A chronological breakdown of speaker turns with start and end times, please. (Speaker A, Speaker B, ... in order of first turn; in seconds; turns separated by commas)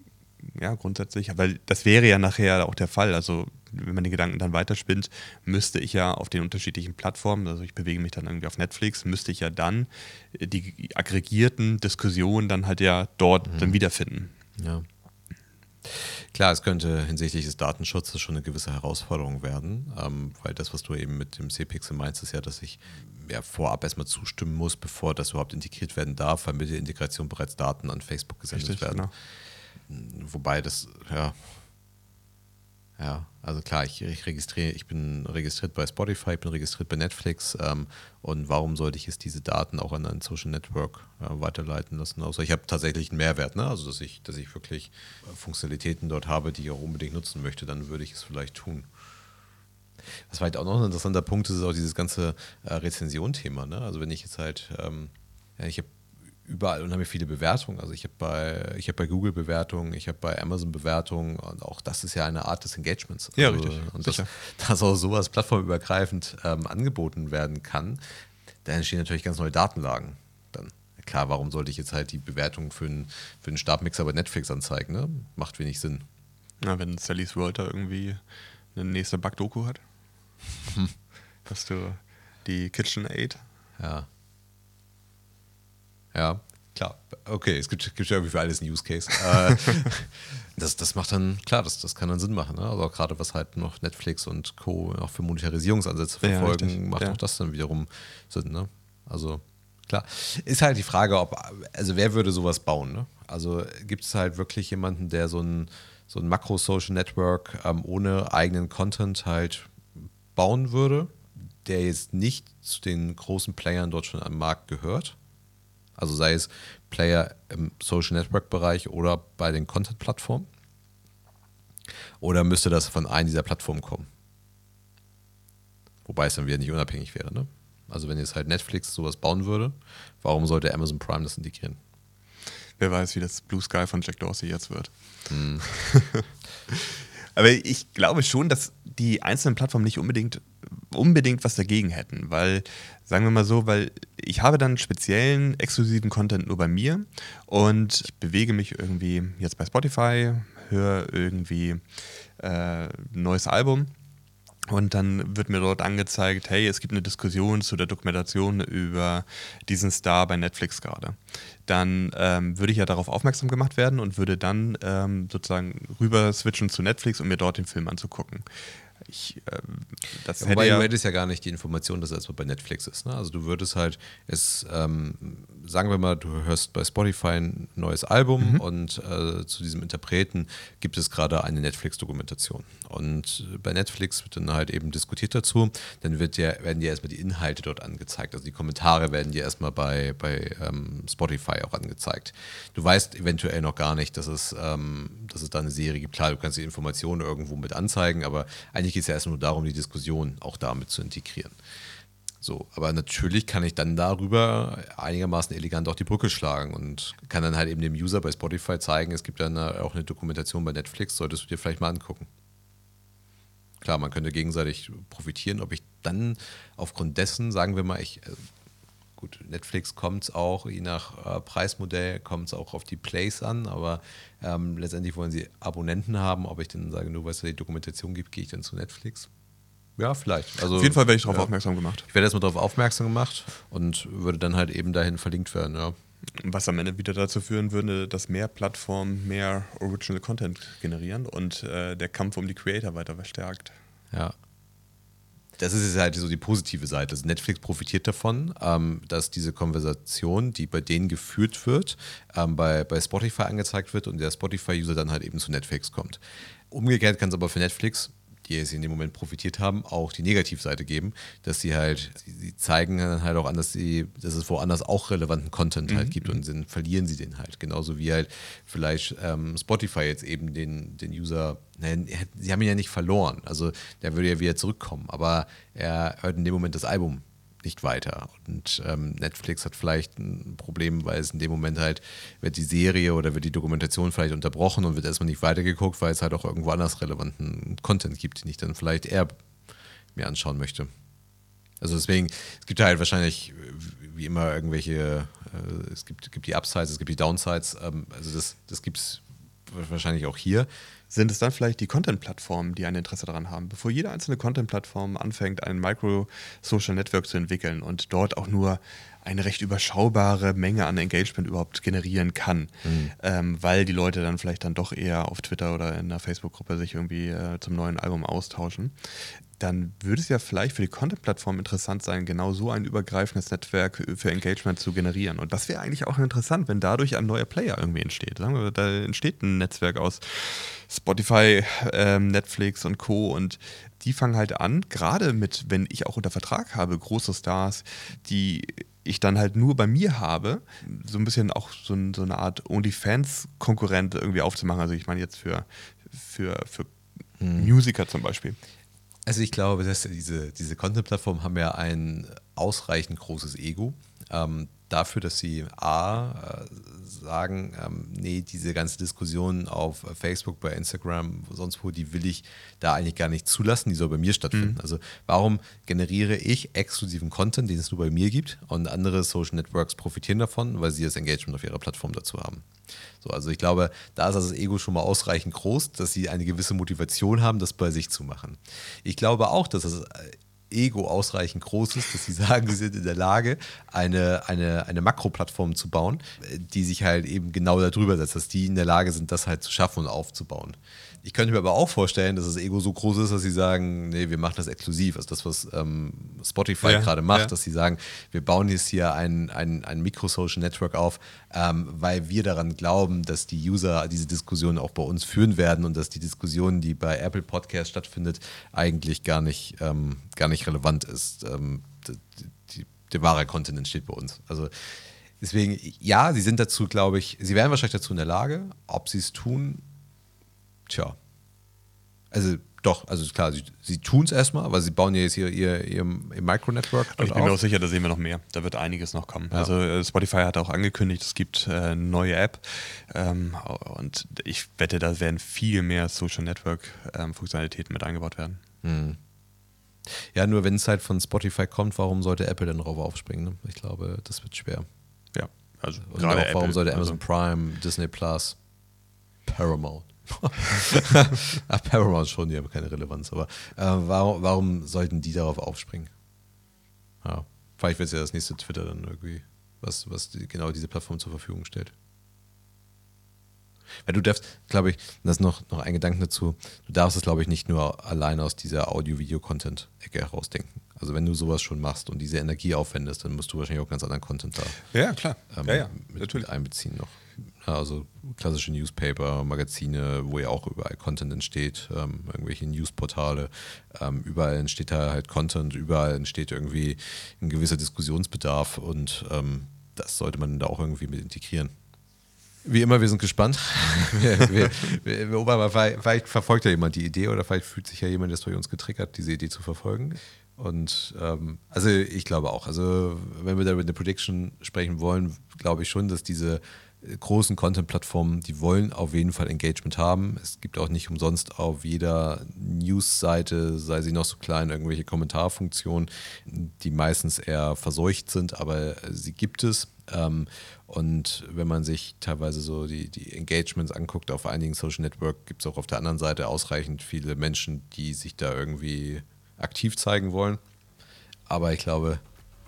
Speaker A: 0.4-14.3, Speaker B: 13.5-13.8, Speaker B: 14.6-14.8, Speaker B: 15.8-29.1, Speaker A: 28.5-29.1, Speaker B: 29.9-31.4, Speaker B: 33.0-48.9, Speaker B: 50.3-55.9, Speaker B: 56.4-68.0, Speaker A: 63.4-64.3, Speaker B: 68.6-76.0, Speaker A: 76.6-78.2, Speaker A: 78.7-79.8, Speaker A: 81.4-83.4, Speaker B: 83.8-84.1, Speaker B: 86.1-109.7, Speaker A: 96.2-97.2, Speaker B: 110.3-115.2, Speaker B: 116.0-120.5, Speaker B: 122.2-124.1, Speaker B: 126.0-131.8, Speaker A: 132.8-151.8, Speaker B: 135.3-135.7, Speaker A: 152.4-153.9, Speaker A: 154.7-168.5, Speaker A: 169.0-170.9, Speaker B: 170.4-201.6, Speaker B: 202.4-212.3, Speaker B: 213.8-218.4, Speaker B: 219.2-229.3, Speaker B: 230.0-231.5, Speaker A: 230.7-232.1, Speaker B: 232.1-235.9, Speaker A: 236.4-243.7, Speaker B: 245.6-256.2, Speaker B: 256.7-289.4, Speaker A: 265.9-266.4, Speaker B: 290.1-290.9, Speaker B: 291.8-300.7, Speaker A: 301.1-318.9, Speaker B: 312.8-313.1, Speaker A: 319.5-346.9, Speaker B: 347.4-347.7, Speaker A: 347.5-348.6, Speaker B: 349.2-372.7, Speaker B: 373.2-414.7, Speaker A: 396.8-397.5, Speaker B: 415.4-419.8, Speaker B: 420.9-421.2, Speaker B: 422.3-427.6, Speaker A: 427.1-438.6, Speaker B: 438.8-439.2, Speaker B: 440.1-444.8, Speaker A: 445.3-447.2, Speaker B: 446.1-448.6, Speaker B: 449.4-456.1, Speaker B: 457.2-461.9, Speaker B: 464.0-474.8, Speaker A: 474.9-476.5, Speaker B: 475.5-491.7, Speaker B: 492.6-530.6, Speaker B: 531.5-532.2